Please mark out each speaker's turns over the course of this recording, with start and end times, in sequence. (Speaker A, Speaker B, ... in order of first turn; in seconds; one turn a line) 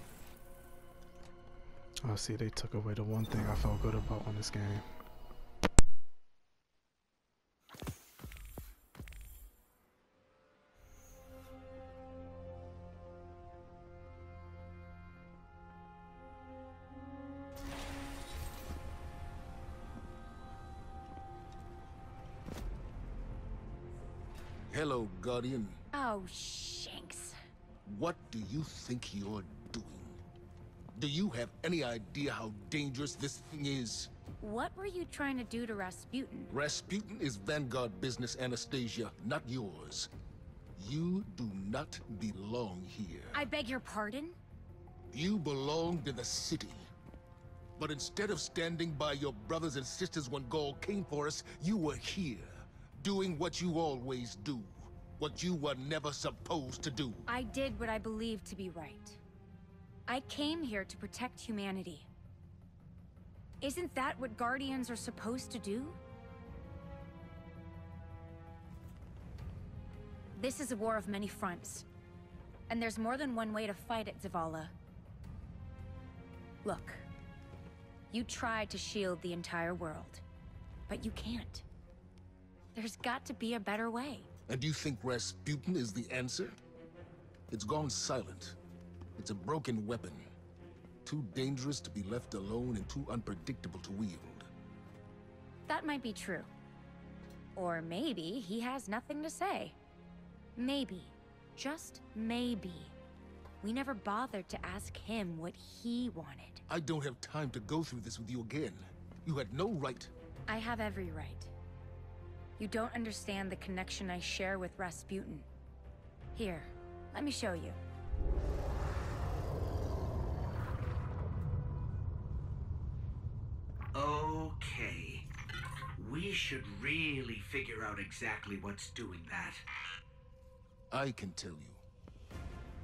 Speaker A: 2.0-4.8
Speaker B: 24.7-25.8
Speaker C: 25.9-27.4
Speaker B: 27.9-30.2
Speaker B: 30.9-34.1
Speaker C: 34.4-36.5
Speaker B: 36.5-40.1
Speaker B: 40.8-43.4
Speaker C: 43.3-44.4
Speaker B: 45.1-46.9
Speaker B: 47.8-57.3
Speaker C: 57.3-59.2
Speaker C: 60.1-62.1
Speaker C: 63.6-66.0
Speaker C: 70.3-71.8
Speaker C: 72.7-74.7
Speaker C: 76.6-77.1
Speaker C: 78.1-80.2
Speaker C: 80.9-81.7
Speaker C: 82.8-84.3
Speaker B: 84.5-86.6
Speaker B: 87.5-88.6
Speaker B: 89.2-90.3
Speaker B: 91.0-94.5
Speaker C: 95.7-96.5
Speaker C: 97.6-99.8
Speaker C: 100.6-102.9
Speaker C: 103.6-106.6
Speaker B: 106.7-110.1
Speaker C: 110.5-111.5
Speaker C: 112.6-115.5
Speaker C: 116.3-117.8
Speaker D: 123.9-125.3
Speaker D: 126.0-129.6
Speaker B: 130.9-131.8